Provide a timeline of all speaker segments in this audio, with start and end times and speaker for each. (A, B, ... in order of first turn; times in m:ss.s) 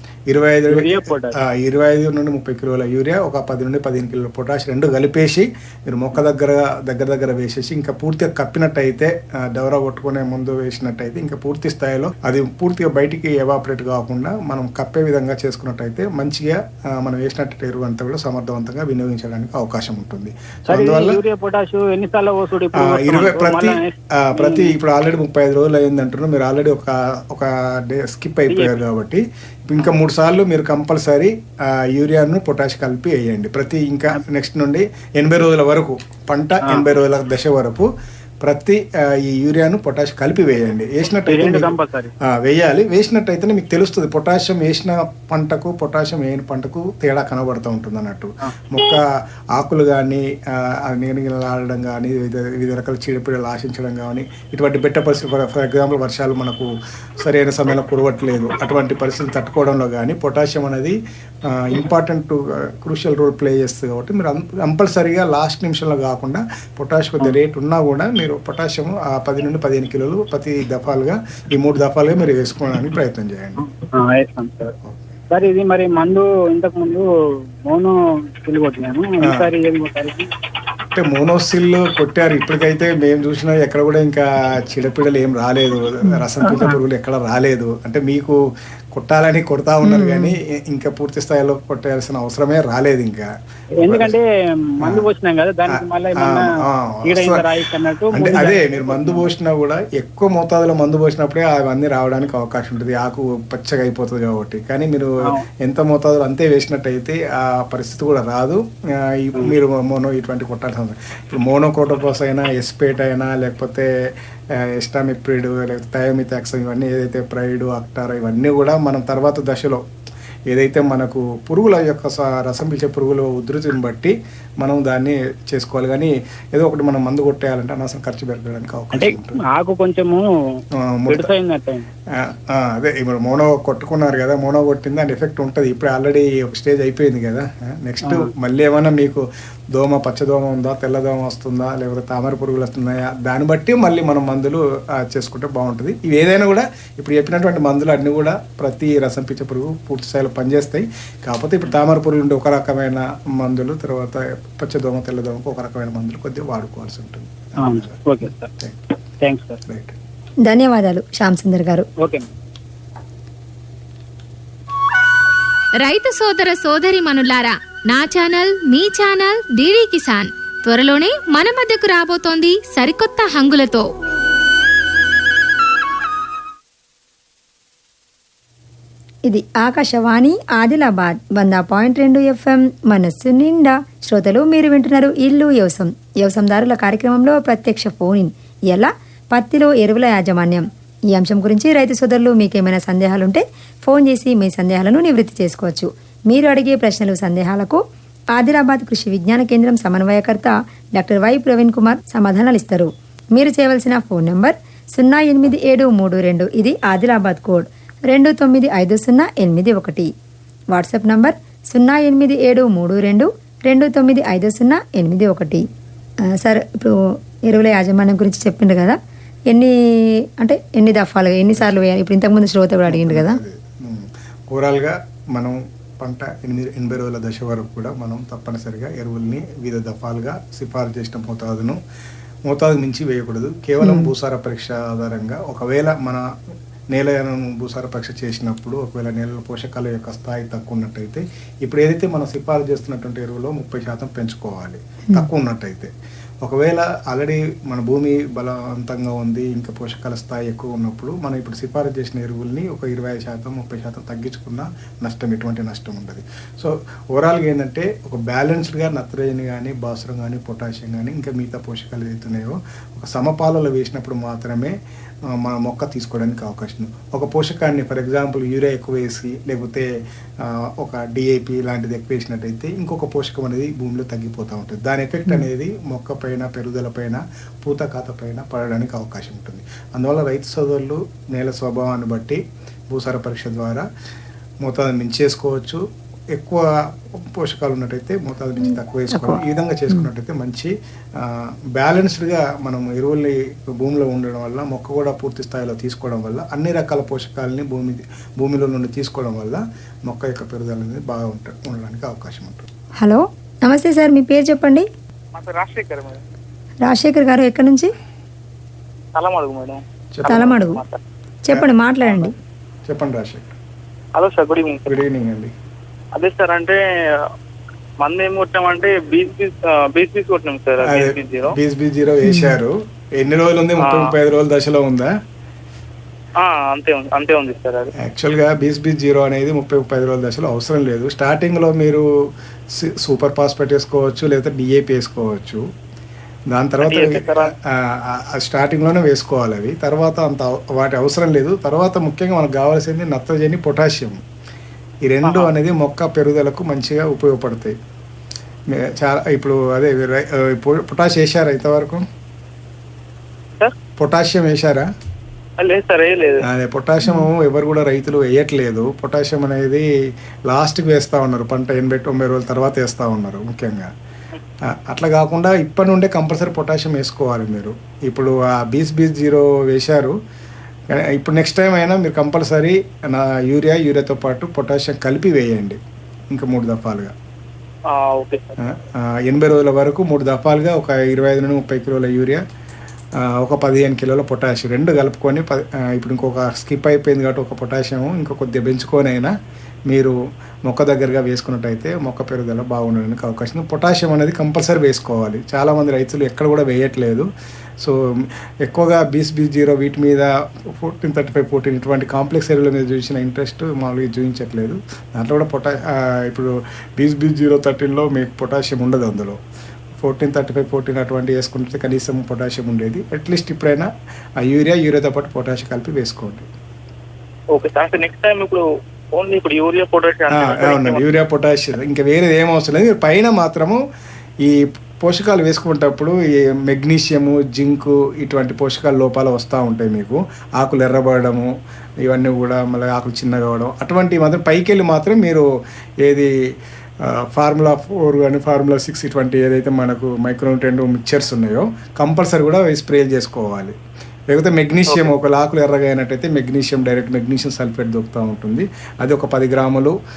0:00.3-0:21.2 A
0:00.7-0:01.4 B
0:20.7-0:24.7 B
0:22.7-0:37.9 A
0:28.5-0:28.8 B
0:38.4-1:13.6 A
0:41.3-0:42.1 B
1:13.6-1:14.7 B
1:14.8-1:15.2 A
1:15.3-1:17.0 B
1:17.7-1:17.9 B
1:18.4-1:20.3 B
1:20.9-1:28.4 A
1:28.9-1:33.3 A
1:29.9-1:30.3 C
1:33.8-1:39.3 B
1:33.8-1:34.2 A
1:34.8-1:35.1 A
1:35.7-1:37.5 A
1:38.1-1:53.9 A
1:54.5-1:59.8 A
2:00.5-2:09.4 A
2:08.9-2:10.2 B
2:10.8-2:11.3 A
2:11.1-2:11.9 B
2:12.1-2:38.0 A
2:18.0-2:18.3 B
2:37.6-2:38.5 B
2:39.2-2:39.6 B
2:39.6-2:40.0 A
2:40.4-2:41.9 C
2:42.0-2:42.3 B
2:45.8-2:53.9 D
2:59.3-3:17.8 C
3:18.3-3:30.1 C
3:30.7-3:35.7 C
3:36.2-3:39.0 C
3:39.5-3:43.4 C
3:42.9-3:51.8 A
3:52.5-3:56.2 A
3:53.8-3:54.1 C
3:56.9-4:05.9 A
4:06.4-4:24.8 A
4:25.3-4:29.9 A
4:30.4-4:43.8 A
4:44.6-4:45.8 A
4:46.3-5:02.7 A
4:49.1-4:49.4 C
5:03.0-5:04.9 C
5:05.3-5:06.2 E
5:06.8-5:07.9 C
5:09.2-5:11.0 E
5:10.2-5:10.5 A
5:10.3-5:10.8 C
5:11.5-5:12.3 C
5:12.9-5:13.6 A
5:14.2-5:15.0 E
5:14.9-5:15.5 A
5:16.2-5:17.2 E
5:18.0-5:21.6 E
5:20.8-5:25.1 A
5:22.3-5:22.6 C
5:23.8-5:24.2 E
5:26.4-5:27.9 E
5:28.0-5:32.1 A
5:32.7-5:35.6 A
5:36.5-5:44.2 A
5:36.8-5:37.5 E
5:45.1-5:47.8 A
5:45.2-5:45.5 E
5:48.7-5:52.1 A
5:54.0-5:54.9 A
5:55.6-5:56.4 E
5:56.4-5:59.9 A
6:00.5-6:03.9 A
6:04.7-6:10.2 A
6:10.9-6:15.8 A
6:16.3-6:17.1 A
6:17.9-6:18.6 E
6:18.6-6:22.4 A
6:23.2-6:29.3 A
6:29.9-6:30.2 A
6:30.7-6:37.3 A
6:37.8-6:49.4 A
6:50.0-6:53.9 A
6:54.4-6:56.5 A
6:57.6-7:01.0 E
7:00.3-7:03.8 A
7:04.4-7:11.5 A
7:12.0-7:15.4 A
7:16.0-7:16.3 A
7:17.0-7:23.8 A
7:24.3-7:30.0 A